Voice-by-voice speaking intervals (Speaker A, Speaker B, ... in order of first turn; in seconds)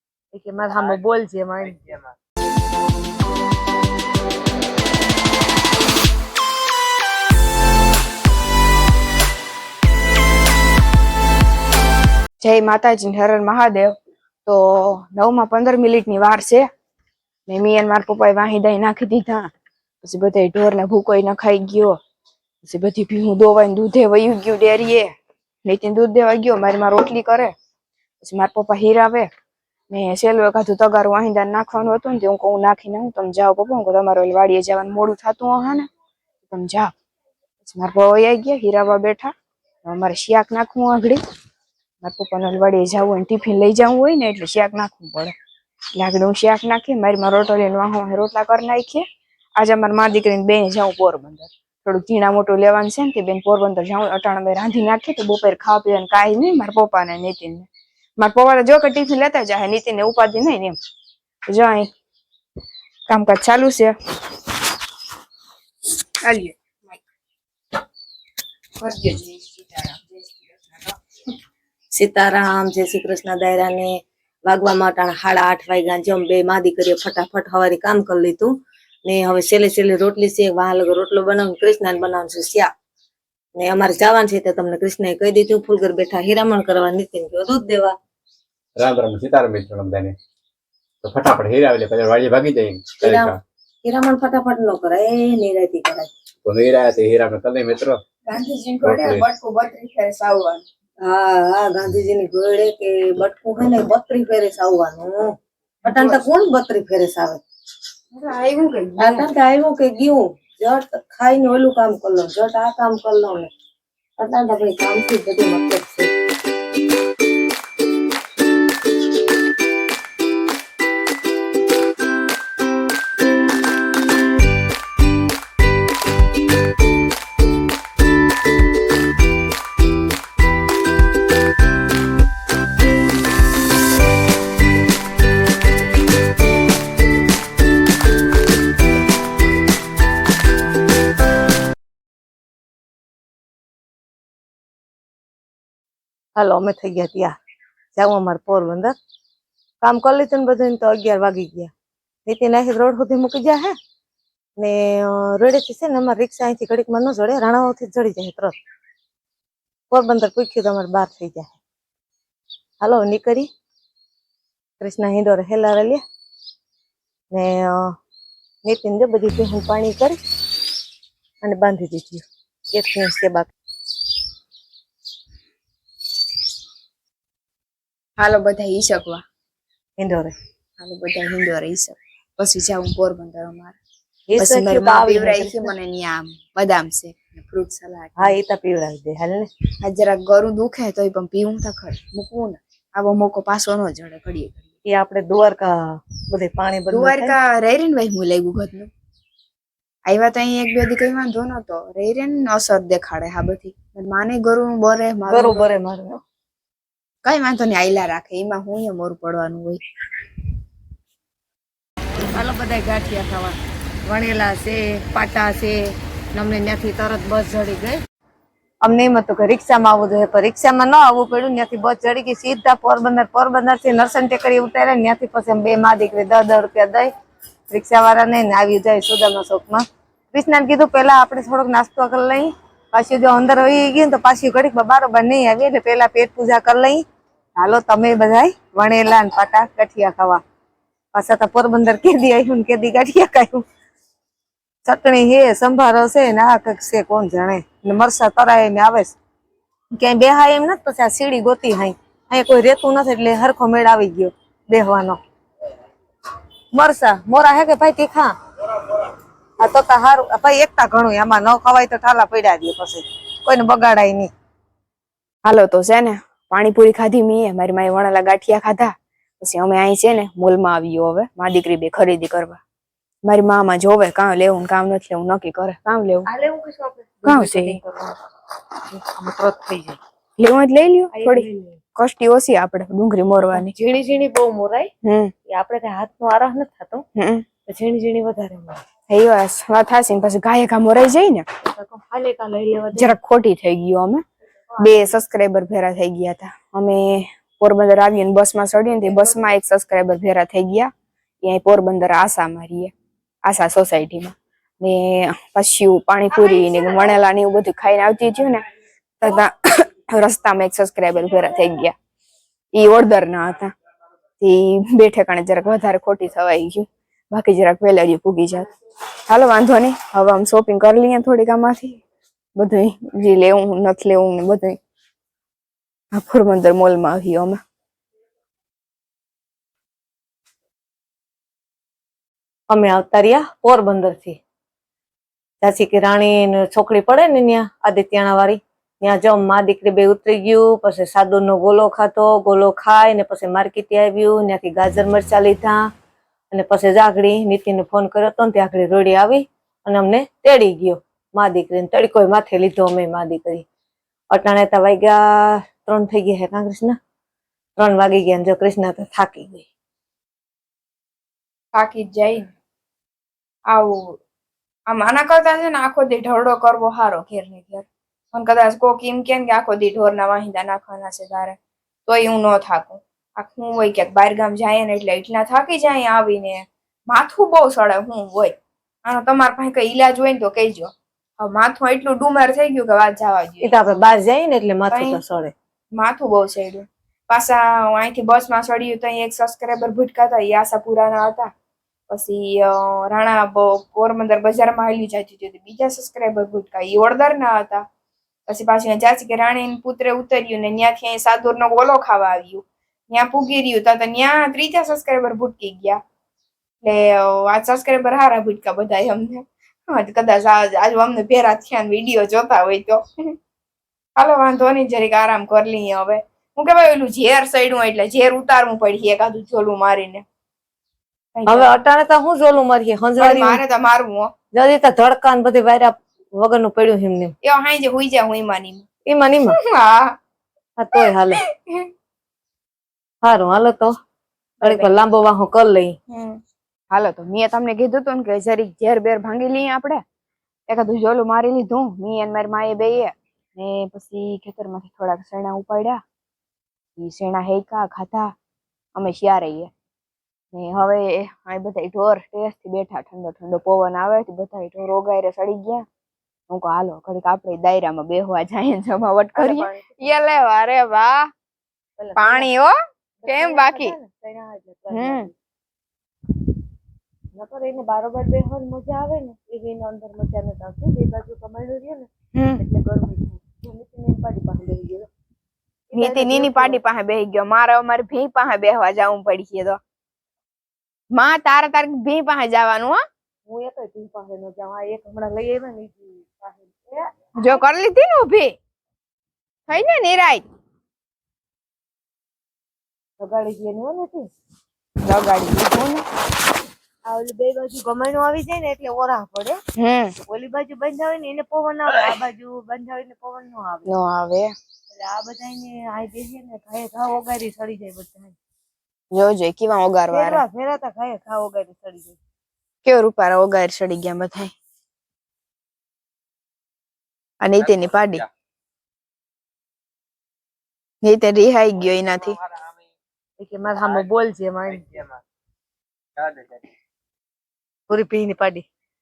Speaker A: 0.3-1.9, 71.9-78.5, 79.0-82.7, 83.6-88.0, 93.0-96.1, 101.0-105.3, 105.8-107.4, 109.0-113.5, 114.2-116.1, 146.3-147.3, 147.9-148.9, 149.8-151.7, 152.2-153.8, 154.6-158.5, 159.9-161.6, 162.8-163.5, 164.8-166.0, 167.3-167.9, 168.6-170.2, 171.4-173.5, 180.0-180.3, 184.3-185.7, 188.2-189.5, 194.8-197.4, 205.3-206.2, 212.3-213.6, 214.1-217.9, 218.8-227.1, 227.7-237.0, 237.6-240.4, 241.1-243.6, 244.8-249.2, 250.0-255.2, 256.7-258.3, 259.6-264.3, 276.3-278.1, 278.9-280.0, 281.1-281.8, 283.7-284.9, 285.5-287.0, 287.7-288.8, 291.8-293.1, 332.7-334.4, 335.6-345.9, 346.5-353.6, 354.3-357.0, 357.8-359.6, 383.6-385.5, 421.5-423.6, 424.5-427.3, 429.1-429.6, 430.8-431.4, 433.2-433.9, 434.6-435.9, 459.3-460.5, 462.0-462.4, 463.2-465.3, 467.4-472.1, 472.6-475.1, 475.9-476.8, 483.5-486.9, 493.2-494.2, 497.1-499.6, 500.3-503.9, 505.0-508.3, 510.1-512.2, 523.4-524.9, 527.9-528.6
Speaker B: 12.4-13.9, 14.4-16.7, 17.5-19.5, 20.0-22.0, 22.6-25.1, 25.6-27.5, 28.2-29.3, 29.9-35.9, 36.5-36.9, 37.6-39.3, 39.8-41.2, 42.0-45.3, 45.9-49.0, 49.5-57.7, 58.2-60.8, 61.5-61.9, 63.1-63.9, 66.2-67.0, 68.8-70.4, 98.3-100.6, 105.8-106.2, 108.1-109.3, 178.2-179.2, 180.8-183.8, 184.3-188.4, 189.8-194.7, 196.9-198.9, 200.1-205.7, 207.2-209.8, 265.4-272.6, 273.2-276.3, 277.2-277.8, 280.4-283.7, 285.0-285.3, 287.1-287.4, 289.1-291.4, 292.9-294.2, 294.8-300.9, 301.4-302.9, 303.4-308.6, 309.2-311.9, 312.7-313.7, 314.4-318.7, 319.3-322.0, 322.6-324.8, 326.1-327.6, 361.7-362.4, 363.7-364.2, 364.9-378.5, 379.1-383.8, 384.9-385.2, 385.9-391.5, 392.1-397.8, 398.5-406.0, 406.8-413.3, 414.2-420.2, 421.3-421.7, 423.2-424.3, 427.4-428.9, 429.5-430.1, 430.9-431.9, 434.6-435.0, 436.1-436.4, 436.9-440.0, 440.7-446.0, 447.0-448.3, 448.9-449.7, 450.5-455.9, 456.5-461.3, 462.1-462.7, 463.2-463.9, 464.9-465.3, 472.3-472.6, 475.9-479.8, 481.1-483.0, 487.4-488.5, 489.7-490.4, 495.0-496.0, 499.8-500.1, 503.9-504.5, 509.1-510.4, 512.8-514.5, 517.4-518.2, 521.0-522.4
Speaker C: 88.8-90.2, 91.0-93.4, 96.4-98.0, 98.8-99.3